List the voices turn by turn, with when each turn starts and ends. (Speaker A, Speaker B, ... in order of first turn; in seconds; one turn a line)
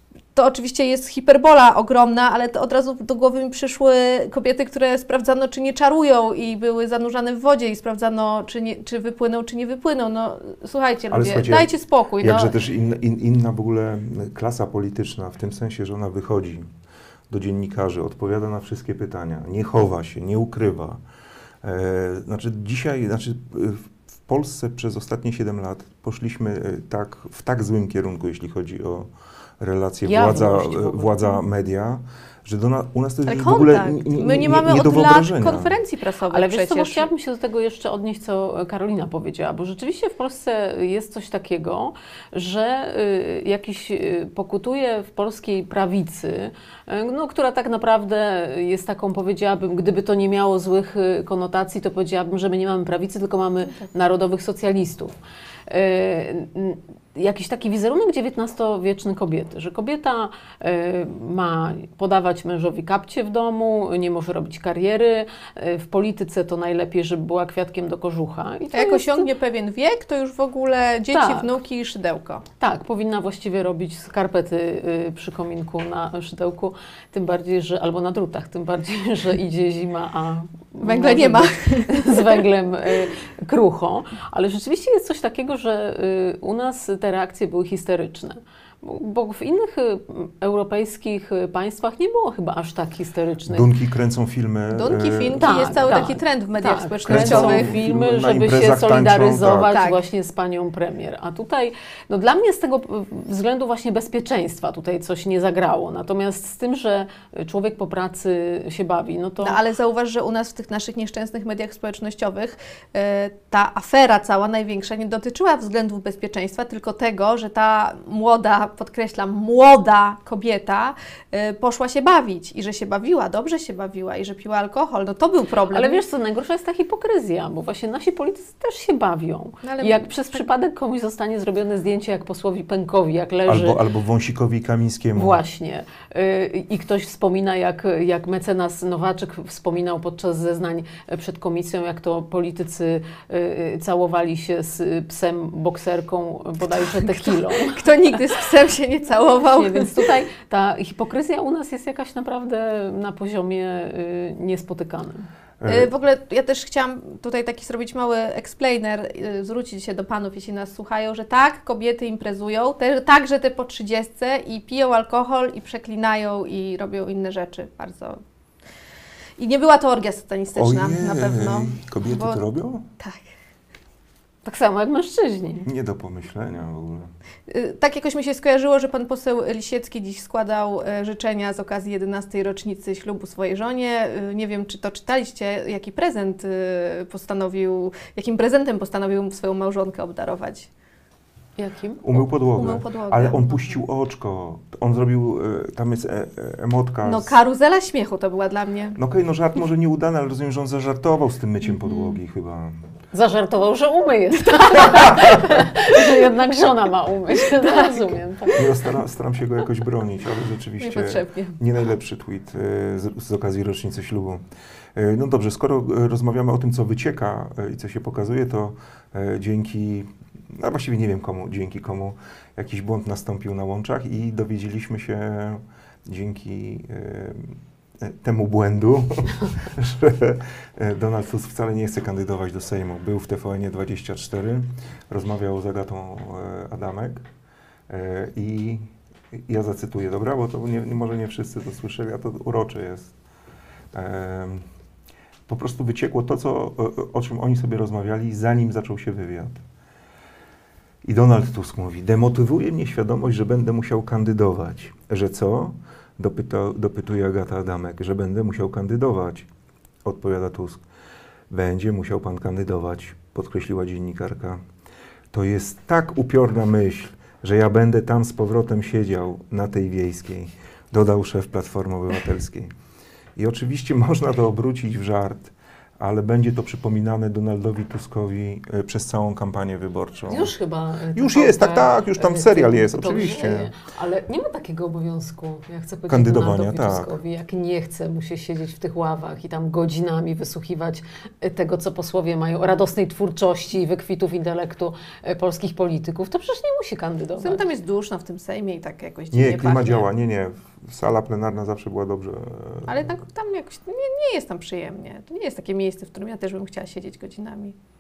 Speaker A: 0.3-12.6
Speaker B: 11.1-11.7
Speaker B: 12.2-16.7
Speaker B: 17.3-21.0
Speaker B: 21.6-35.8
Speaker C: 30.1-31.4
Speaker A: 33.3-37.1
Speaker C: 36.3-55.1
Speaker C: 55.7-69.3
Speaker A: 68.7-72.5
Speaker C: 71.1-71.5
Speaker C: 72.6-93.7
Speaker A: 80.8-82.4
Speaker B: 93.5-95.8
Speaker A: 94.7-97.8
Speaker C: 95.4-109.6
Speaker B: 97.1-99.7
Speaker A: 99.7-100.0
Speaker A: 109.4-126.0
Speaker C: 125.7-133.8
Speaker A: 129.6-130.4
Speaker B: 133.5-135.4
Speaker C: 135.2-147.9
Speaker A: 146.7-150.1
Speaker C: 149.4-155.3
Speaker B: 155.6-155.9
Speaker A: 155.7-168.2
Speaker A: 169.4-172.4
Speaker B: 170.6-172.8
Speaker C: 174.4-175.7
Speaker B: 175.7-177.1
Speaker A: 177.5-190.7
Speaker C: 191.6-192.0
Speaker B: 192.0-197.4
Speaker A: 192.1-193.8
Speaker A: 197.1-199.0
Speaker B: 199.0-202.8
Speaker C: 203.1-208.6
Speaker B: 204.8-205.6
Speaker A: 207.4-208.6
Speaker B: 208.5-214.4
Speaker A: 210.8-211.6
Speaker B: 214.9-237.3
Speaker B: 237.9-238.8
Speaker B: 239.3-243.2
Speaker B: 243.9-244.7
Speaker B: 245.5-249.6
Speaker B: 251.0-259.5
Speaker B: 260.0-260.8
Speaker B: 261.5-264.6
Speaker B: 265.3-272.7
Speaker B: 273.4-280.5
Speaker C: 280.3-297.6
Speaker B: 281.1-283.7
Speaker B: 286.1-287.1
Speaker A: 297.4-300.1
Speaker B: 299.3-303.1
Speaker A: 302.9-307.8